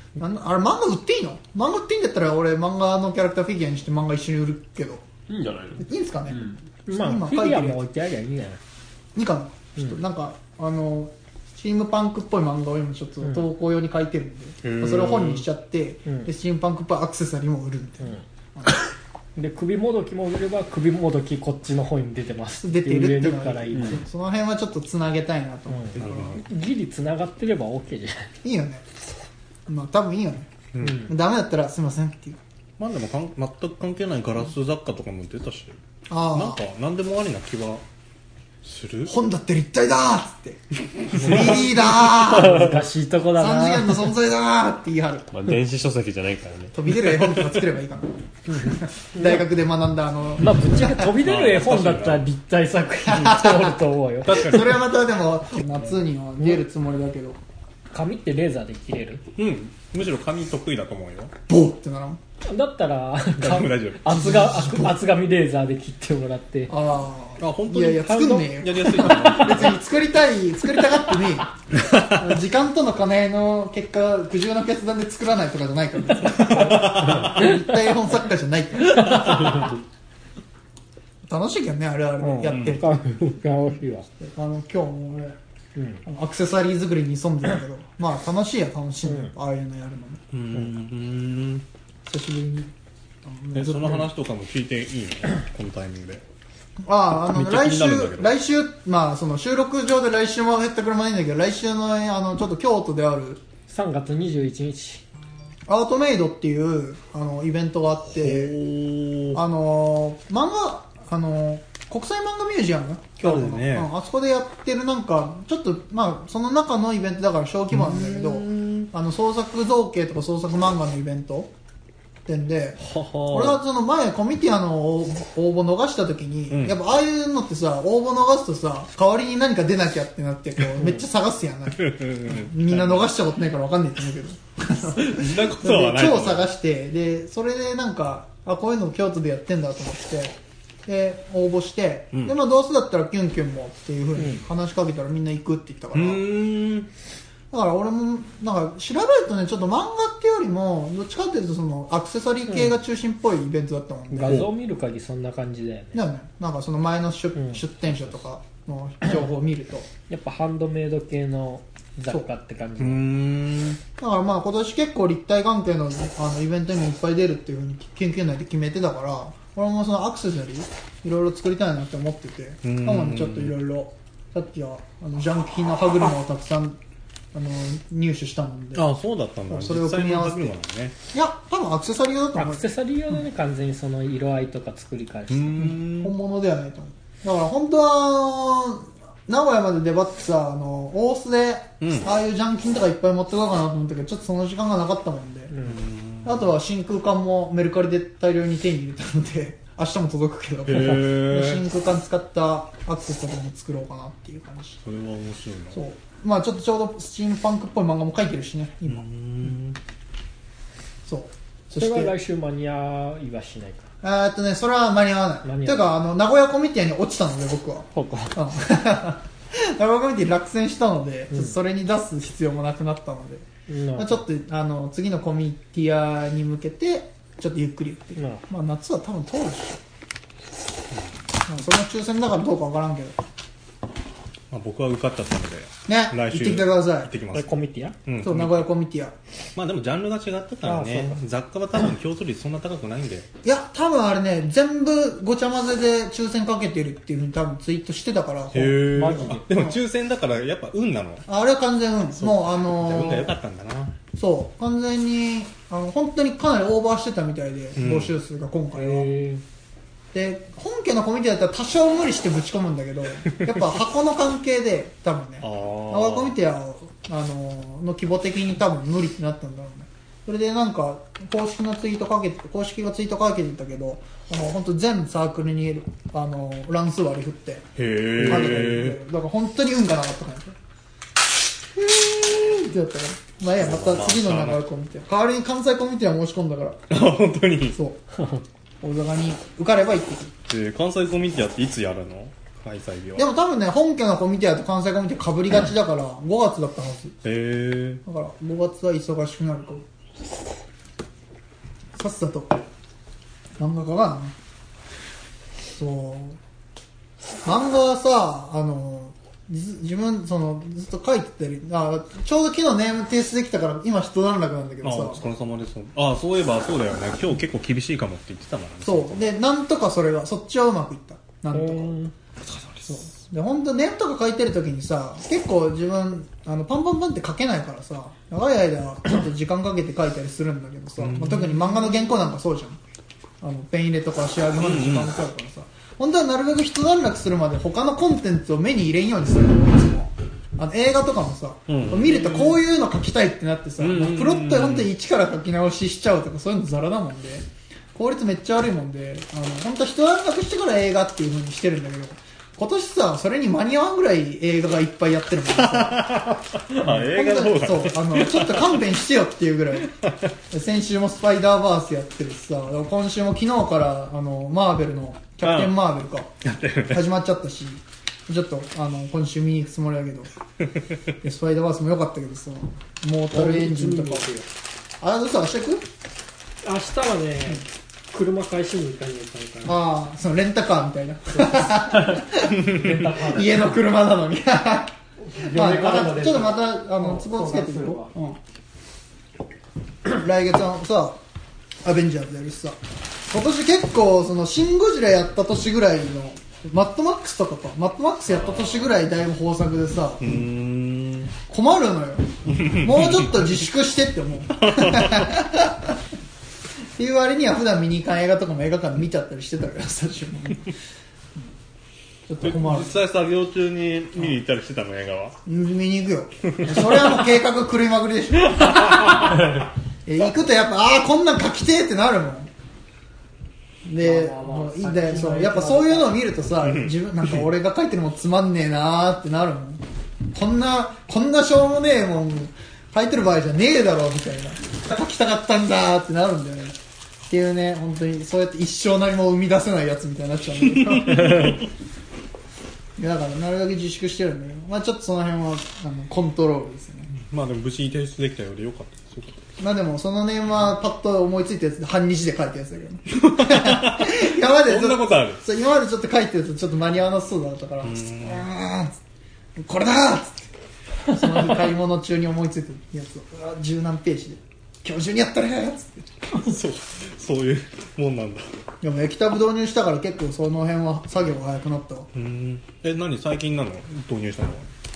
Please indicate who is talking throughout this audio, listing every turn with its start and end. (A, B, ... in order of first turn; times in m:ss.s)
0:00.2-0:05.0 A
0:05.3-0:06.6 B
0:05.8-0:07.8 A
0:06.9-0:08.6 C
0:09.1-0:18.8 A
0:14.6-0:15.4 D
0:19.4-0:24.0 C
0:22.6-0:26.4 A
0:25.7-0:28.3 C
0:26.0-0:26.4 D
0:28.4-0:28.8 A
0:29.7-0:30.5 A
0:30.7-0:31.1 D
0:30.8-0:31.1 C
0:31.0-0:32.4 A
0:32.8-0:35.8 D
0:36.1-0:36.6 A
0:36.3-0:37.8 D
0:38.6-0:39.1 D
0:39.0-0:42.8 A
0:41.1-0:44.1 C
0:43.4-0:45.3 A
0:45.3-0:46.7 B
0:46.7-0:51.1 A
0:48.5-0:49.4 C
0:50.4-0:54.6 C
0:51.2-0:52.2 D
0:53.0-0:57.4 A
0:54.3-0:54.6 D
0:57.9-0:59.2 C
0:59.4-1:01.3 D
1:01.5-1:02.2 A
1:02.4-1:06.7 C
1:03.4-1:04.1 D
1:04.1-1:05.0 A
1:06.7-1:19.8 A
1:07.4-1:09.8 D
1:08.1-1:09.4 C
1:11.8-1:12.2 D
1:16.5-1:17.4 D
1:19.0-1:19.7 C
1:21.2-1:23.0 A
1:22.2-1:24.1 C
1:22.5-1:22.8 D
1:24.2-1:25.4 A
1:25.7-1:26.0 C
1:26.0-1:30.2 A
1:29.0-1:29.3 C
1:30.3-1:31.6 D
1:32.0-1:32.7 A
1:33.2-1:34.1 A
1:33.5-1:36.2 D
1:36.8-1:43.4 A
1:37.3-1:38.3 D
1:43.7-1:45.0 C
1:45.7-1:48.6 A
1:48.1-1:49.4 D
1:49.3-2:01.5 A
1:53.2-1:53.9 D
1:57.7-1:58.9 D
2:02.2-2:20.3 A
2:02.8-2:03.6 D
2:06.5-2:06.8 D
2:11.8-2:13.1 D
2:14.9-2:16.5 D
2:20.8-2:26.2 A
2:25.9-2:26.9 D
2:27.5-2:34.5 A
2:34.1-2:36.0 C
2:35.9-2:39.9 A
2:37.4-2:37.6 C
2:40.1-2:43.0 C
2:42.8-2:43.8 D
2:44.0-2:56.8 A
2:52.6-2:53.5 D
2:57.3-2:58.9 A
2:58.7-3:01.0 D
2:59.5-3:00.5 A
3:01.1-3:02.6 A
3:02.3-3:05.8 C
3:05.3-3:06.1 D
3:05.6-3:15.6 A
3:11.8-3:12.1 D
3:15.5-3:15.8 C
3:15.6-3:16.5 D
3:16.2-3:24.8 A
3:20.6-3:21.6 D
3:24.8-3:25.8 D
3:25.7-3:29.5 A
3:28.9-3:29.8 D
3:31.0-3:32.1 A
3:31.7-3:33.9 C
3:34.0-3:49.8 A
3:35.4-3:35.9 C
3:37.9-3:38.3 C
3:43.7-3:44.2 C
3:48.2-3:48.4 C
3:51.5-3:53.2 A
3:54.5-3:57.5 D
3:55.9-3:57.1 A
3:57.3-3:58.0 C
3:58.0-3:58.6 D
3:58.2-3:59.1 A
3:59.6-4:03.3 D
4:00.6-4:01.2 C
4:03.4-4:09.8 A
4:08.5-4:11.2 D
4:08.9-4:09.4 C
4:11.3-4:13.3 A
4:12.2-4:13.9 D
4:14.1-4:19.1 A
4:17.8-4:18.1 D
4:18.7-4:19.4 C
4:20.1-4:37.6 A
4:25.4-4:26.3 D
4:37.8-4:39.0 D
4:38.2-4:40.6 A
4:41.7-4:46.8 A
4:43.6-4:44.6 D
4:46.9-4:47.8 D
4:47.7-4:48.0 A
4:48.8-4:50.3 A
4:50.5-4:53.2 D
4:53.2-4:57.2 A
4:57.2-4:58.0 D
4:58.0-4:59.8 A
5:01.9-5:02.6 A
5:03.6-5:04.3 A
5:05.7-5:06.4 A
5:07.4-5:15.2 A
5:14.8-5:19.3 D
5:18.8-5:22.0 A
5:21.5-5:22.1 C
5:22.5-5:23.0 D
5:22.9-5:32.8 A
5:31.0-5:31.7 D
5:33.4-5:56.2 A
5:34.6-5:35.1 D
5:41.7-5:42.6 D
5:43.8-5:44.9 D
5:55.6-5:58.8 D
5:56.8-5:59.9 A
6:00.5-6:06.3 A
6:05.4-6:05.8 D
6:06.4-6:07.0 D
6:06.9-6:10.3 A
6:11.2-6:14.3 A
6:13.3-6:14.5 C
6:15.0-6:15.8 A
6:16.6-6:19.8 C
6:19.6-6:28.4 A
6:21.3-6:23.6 C
6:25.2-6:28.1 C
6:30.0-6:31.2 A
6:31.8-6:40.4 A
6:38.3-6:38.8 D
6:40.2-6:41.3 D
6:41.5-6:46.0 A
6:42.5-6:43.3 D
6:44.6-6:45.3 D
6:47.0-6:50.7 A
6:52.3-6:53.0 A
6:52.4-6:55.4 D
6:55.4-6:59.5 A
6:56.5-6:56.8 D
7:00.0-7:02.5 A
7:03.8-7:16.8 A
7:04.0-7:06.2 C
7:06.6-7:06.9 D
7:17.3-7:21.6 A
7:21.1-7:21.4 D
7:23.0-7:27.1 A
7:27.1-7:29.5 D
7:29.6-7:38.9 A
7:33.1-7:35.4 D
7:37.8-7:38.5 D
7:39.6-7:40.5 A
7:41.1-7:46.2 A
7:46.3-7:48.4 D
7:48.8-7:52.1 A
7:52.1-7:54.7 D